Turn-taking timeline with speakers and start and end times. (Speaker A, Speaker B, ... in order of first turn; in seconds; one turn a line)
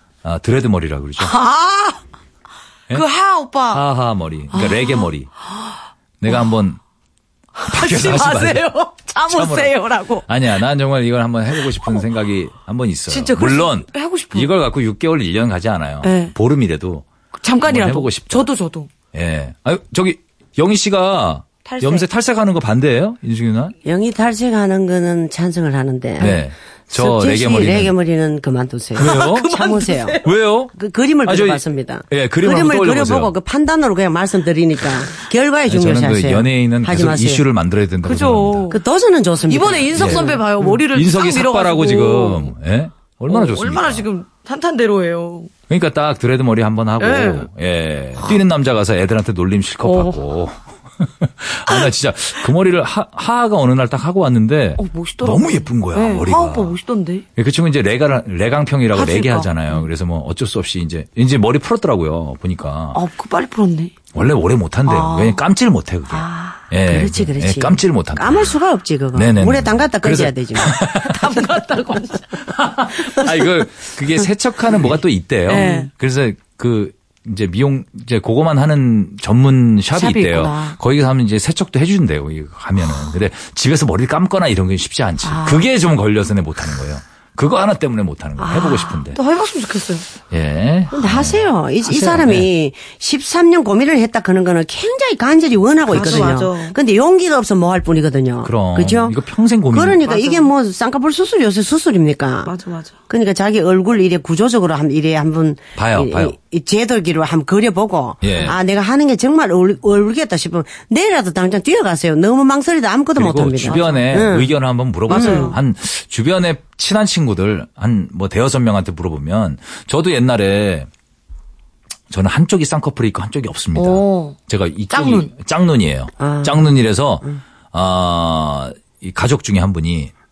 Speaker A: 0.2-1.3
Speaker B: 1.2-2.0
Speaker B: 2.9-3.8
Speaker A: 3.7-5.3
Speaker B: 4.5-5.7
Speaker A: 6.2-6.8
Speaker B: 7.5-10.2
Speaker A: 7.7-8.7
Speaker A: 9.3-17.0
Speaker B: 11.6-12.0
Speaker B: 13.1-14.5
Speaker B: 16.0-16.3
Speaker B: 17.4-18.9
Speaker A: 17.6-18.5
Speaker A: 19.1-23.7
Speaker B: 21.6-22.1
Speaker C: 23.8-26.4
Speaker A: 26.2-27.9
Speaker C: 26.9-30.2
Speaker A: 28.9-29.5
Speaker B: 29.0-30.3
Speaker A: 30.2-30.7
Speaker C: 30.7-37.4
Speaker A: 31.2-33.3
Speaker A: 35.7-38.7
Speaker B: 38.0-38.8
Speaker C: 38.7-40.4
Speaker B: 39.5-42.5
Speaker A: 39.9-44.0
Speaker B: 43.3-45.5
Speaker A: 45.7-56.8
Speaker B: 47.0-47.5
Speaker B: 49.8-50.2
Speaker B: 54.8-57.2
Speaker A: 57.4-63.0
Speaker B: 58.9-59.9
Speaker B: 62.9-63.9
Speaker A: 64.1-68.6
Speaker B: 64.8-65.4
Speaker B: 66.1-66.6
Speaker C: 66.8-70.8
Speaker A: 69.1-71.3
Speaker B: 70.9-73.3
Speaker A: 72.5-89.2
Speaker B: 75.5-75.9
Speaker B: 79.9-80.8
Speaker B: 85.2-85.6
Speaker B: 88.4-90.0
Speaker A: 90.3-92.5
Speaker C: 90.9-99.2
Speaker A: 95.9-96.4
Speaker B: 95.9-96.8
Speaker A: 98.4-100.0
Speaker C: 99.7-102.5
Speaker B: 100.0-100.5
Speaker B: 102.4-102.9
Speaker C: 103.1-114.5
Speaker A: 105.8-106.3
Speaker A: 108.2-108.5
Speaker A: 113.2-120.9
Speaker B: 113.7-114.1
Speaker C: 115.1-115.5
Speaker B: 115.1-115.6
Speaker A: 122.1-130.1
Speaker B: 123.7-124.3
Speaker B: 124.9-125.3
Speaker C: 126.2-126.7